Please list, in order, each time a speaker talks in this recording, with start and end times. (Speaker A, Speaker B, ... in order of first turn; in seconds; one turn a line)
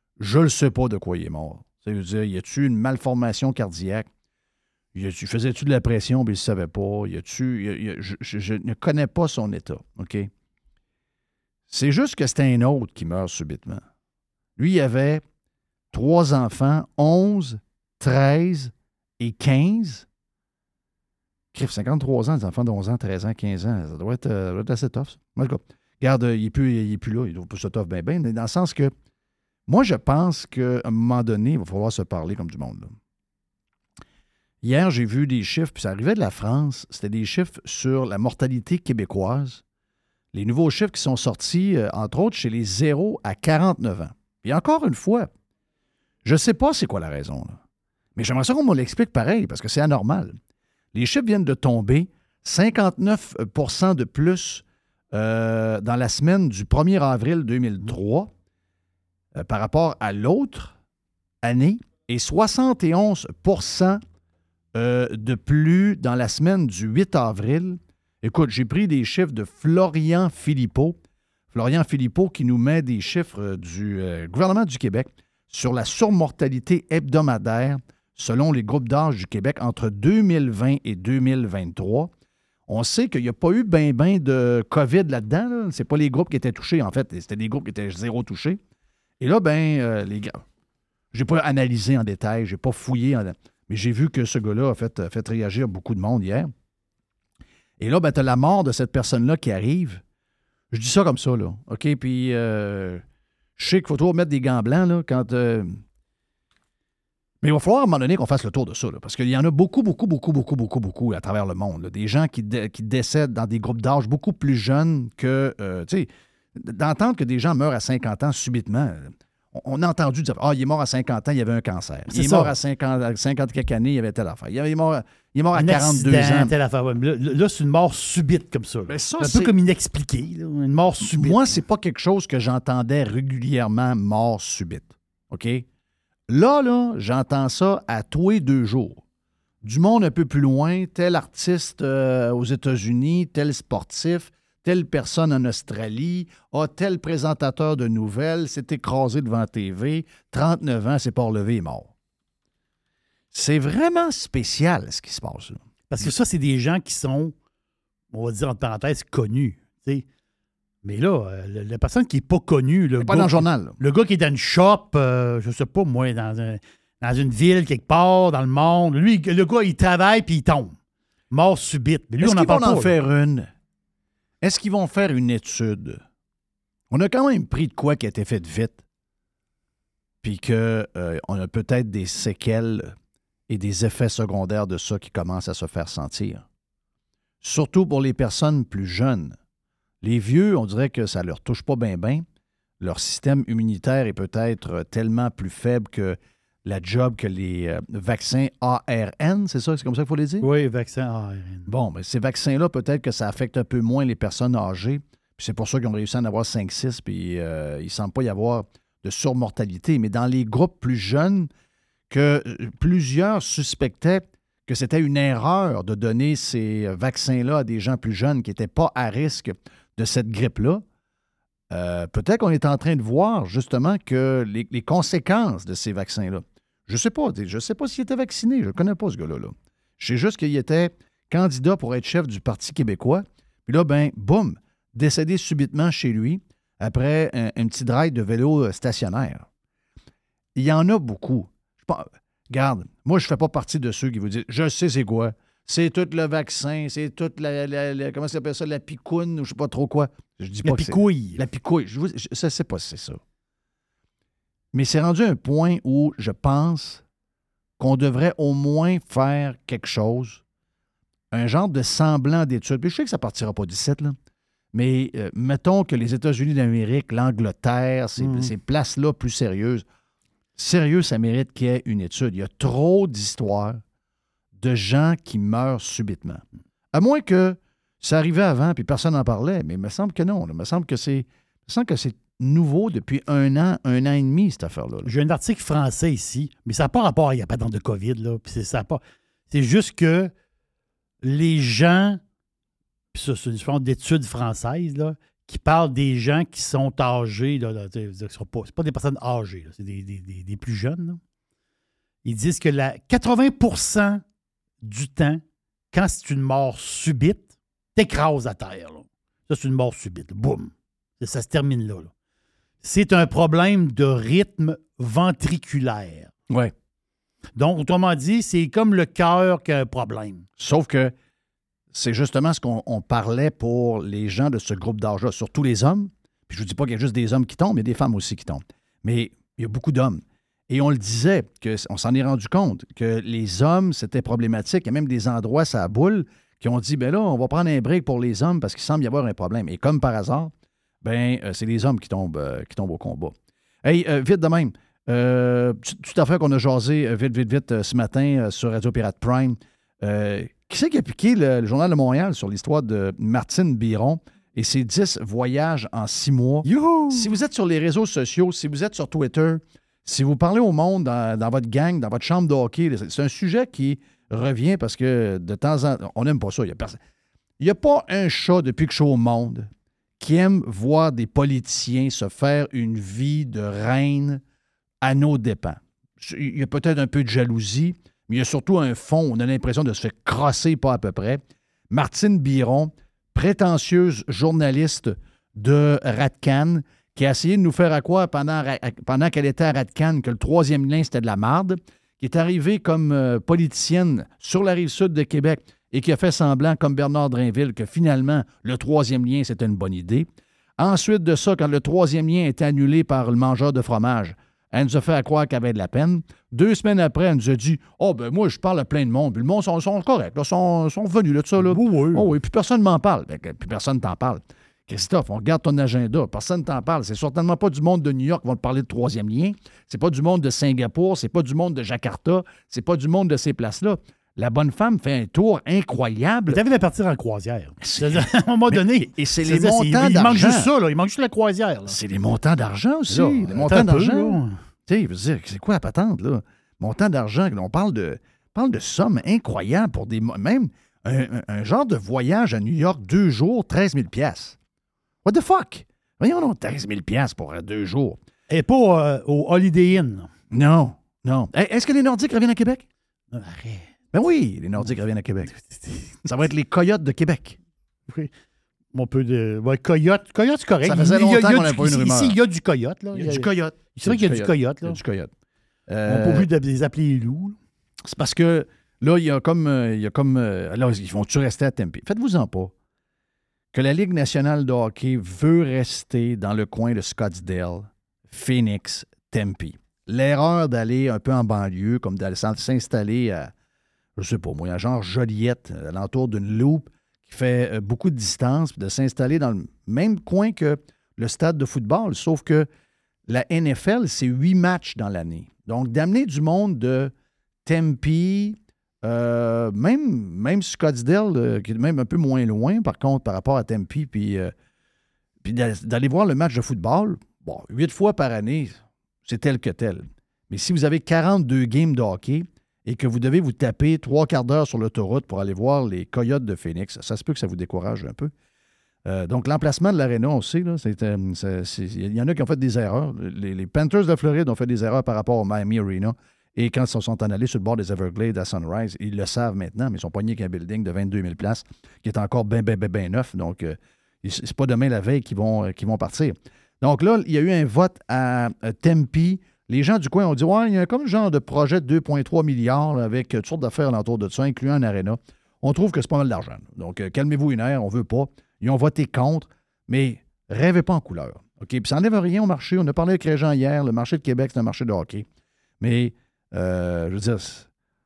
Speaker A: 0.2-4.1
Speaker A: 4.9-10.3
Speaker A: 11.7-13.8
Speaker A: 14.6-15.2
Speaker A: 15.9-20.1
Speaker A: 21.5-28.9
Speaker A: 29.7-32.9
Speaker A: 34.6-39.6
Speaker A: 40.3-45.3
Speaker A: 46.2-47.6
Speaker A: 48.1-50.4
Speaker A: 50.9-58.3
Speaker A: 59.4-60.8
Speaker A: 61.4-64.0
Speaker A: 64.8-71.0
Speaker A: 71.5-82.1
Speaker A: 82.7-88.6
Speaker A: 89.2-90.4
Speaker A: 91.1-96.5
Speaker A: 97.8-100.0
Speaker A: 100.7-103.0
Speaker A: 103.6-105.8
Speaker A: 107.4-126.5
Speaker B: 122.1-122.5
Speaker B: 125.5-131.4
Speaker A: 128.9-129.5
Speaker A: 131.0-135.6
Speaker A: 136.3-139.0
Speaker A: 139.6-151.9
Speaker A: 153.3-155.6
Speaker B: 155.9-157.3
Speaker B: 158.1-160.1
Speaker B: 160.8-170.8
Speaker A: 163.0-163.8
Speaker B: 171.3-172.9
Speaker A: 172.2-173.5
Speaker A: 174.4-176.0
Speaker A: 176.9-178.8
Speaker A: 180.2-182.9
Speaker A: 183.5-186.4
Speaker A: 187.4-189.4
Speaker A: 190.0-192.2
Speaker A: 192.8-200.5
Speaker B: 200.4-201.7
Speaker A: 201.7-211.5
Speaker A: 212.1-220.8
Speaker A: 221.7-239.5
Speaker A: 240.5-253.2
Speaker B: 250.6-251.4
Speaker A: 254.7-257.0
Speaker A: 257.8-260.4
Speaker A: 261.3-264.1
Speaker A: 264.7-269.9
Speaker B: 268.2-268.5
Speaker A: 270.6-273.8
Speaker A: 274.6-285.1
Speaker B: 285.1-290.3
Speaker B: 291.2-292.2
Speaker B: 293.1-301.2
Speaker B: 302.2-304.2
Speaker B: 304.8-305.4
Speaker B: 305.9-312.1
Speaker B: 312.8-316.3
Speaker B: 317.6-320.4
Speaker A: 320.6-321.1
Speaker A: 321.9-367.0
Speaker B: 356.6-357.3
Speaker A: 367.6-374.4
Speaker A: 375.0-426.6
Speaker B: 411.6-412.3
Speaker B: 426.5-432.0
Speaker A: 427.8-430.7
Speaker A: 431.9-444.6
Speaker B: 433.1-434.6
Speaker A: 445.2-448.2
Speaker B: 448.5-450.3
Speaker A: 450.5-452.9
Speaker B: 453.3-453.9
Speaker A: 454.1-455.5
Speaker B: 455.6-456.1
Speaker A: 456.2-457.6
Speaker B: 458.9-465.0
Speaker A: 460.8-462.4
Speaker A: 463.1-465.3
Speaker A: 465.9-466.5
Speaker B: 466.1-467.6
Speaker A: 468.1-472.7
Speaker A: 473.7-483.5
Speaker A: 484.1-492.7
Speaker A: 493.3-497.1
Speaker A: 497.6-504.5
Speaker A: 505.4-518.3
Speaker A: 519.0-555.2
Speaker A: 555.8-557.7